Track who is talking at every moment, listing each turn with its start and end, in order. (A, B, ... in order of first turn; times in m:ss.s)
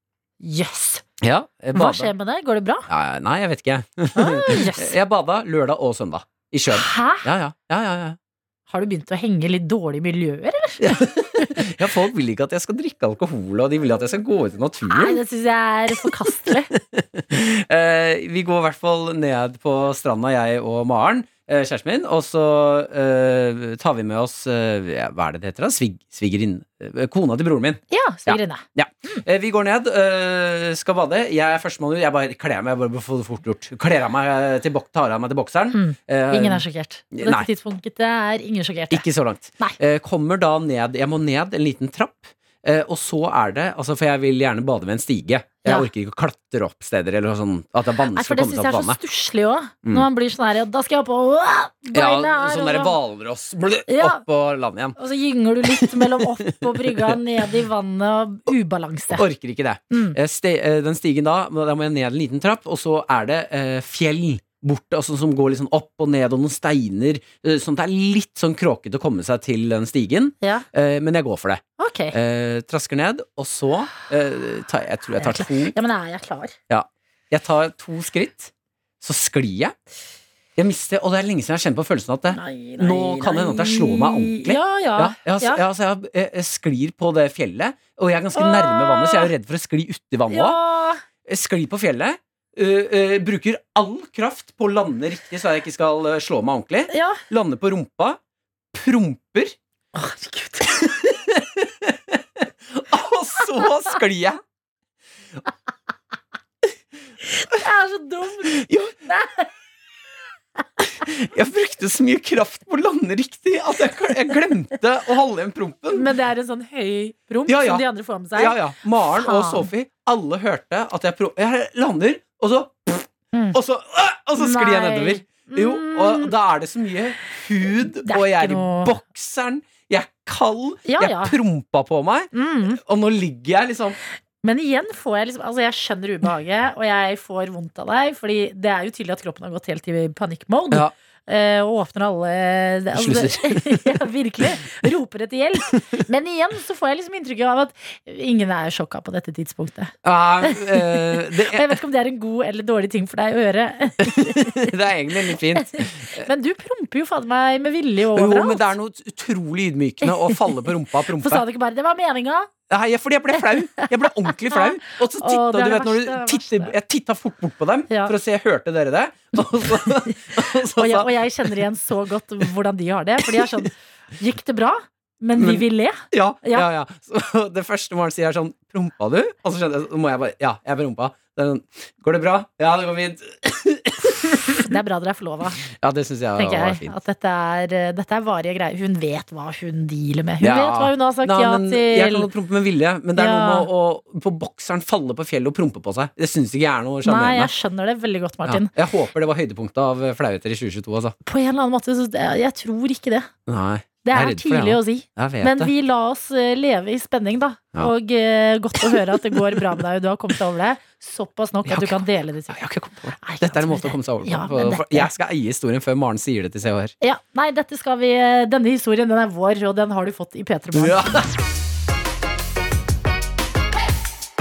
0:00.4-0:01.0 A
0:01.2-0:02.1 B
0:01.7-0:02.9 A
0:02.9-0:08.2 B
0:04.2-0:04.9 A
0:06.7-0:07.3 A
0:08.7-0:10.9 A
0:10.8-0:15.2 B
0:14.9-0:16.7 A
0:16.1-0:37.5 B
0:27.9-0:29.2 A
0:35.7-0:39.0 A
0:38.9-0:49.0 B
0:48.2-0:53.0 A
0:51.9-0:55.0 B
0:53.9-0:54.2 A
0:55.0-0:59.2 A
0:55.7-0:57.2 B
0:59.1-1:15.8 B
0:59.9-1:00.2 A
1:11.8-1:12.2 A
1:15.2-1:16.6 A
1:16.7-1:19.8 B
1:20.6-1:30.6 B
1:22.3-1:25.6 A
1:28.4-1:29.3 A
1:30.3-1:31.0 A
1:31.3-1:38.2 B
1:36.9-1:37.2 A
1:38.7-1:39.6 B
1:39.9-1:40.8 A
1:40.6-1:44.4 B
1:47.3-1:49.5 A
1:48.4-1:49.0 B
1:50.8-1:56.1 B
1:55.9-1:58.6 A
1:57.5-2:14.0 B
1:59.1-1:59.7 A
2:03.3-2:03.6 A
2:04.4-2:06.3 A
2:08.0-2:08.9 A
2:10.9-2:11.4 A
2:12.3-2:12.8 A
2:14.4-2:34.7 A
2:23.0-2:24.7 B
2:25.7-2:26.0 B
2:30.0-2:31.8 B
2:34.0-2:36.3 B
2:35.6-2:38.7 A
2:38.1-2:41.4 B
2:40.0-2:42.5 A
2:42.7-2:51.1 B
2:43.8-2:46.8 A
2:49.8-2:50.1 A
2:50.7-2:56.7 A
2:53.3-2:53.7 B
2:55.4-3:04.7 B
3:04.6-3:05.6 A
3:05.6-3:06.9 B
3:06.4-3:12.3 A
3:10.4-3:17.5 B
3:13.2-3:13.7 A
3:17.0-3:18.7 A
3:18.5-3:21.2 B
3:21.3-3:23.3 A
3:23.5-3:25.7 B
3:24.0-3:32.6 A
3:28.8-3:29.7 B
3:31.7-3:36.9 B
3:33.2-3:35.1 A
3:37.0-3:41.0 A
3:40.8-3:41.3 B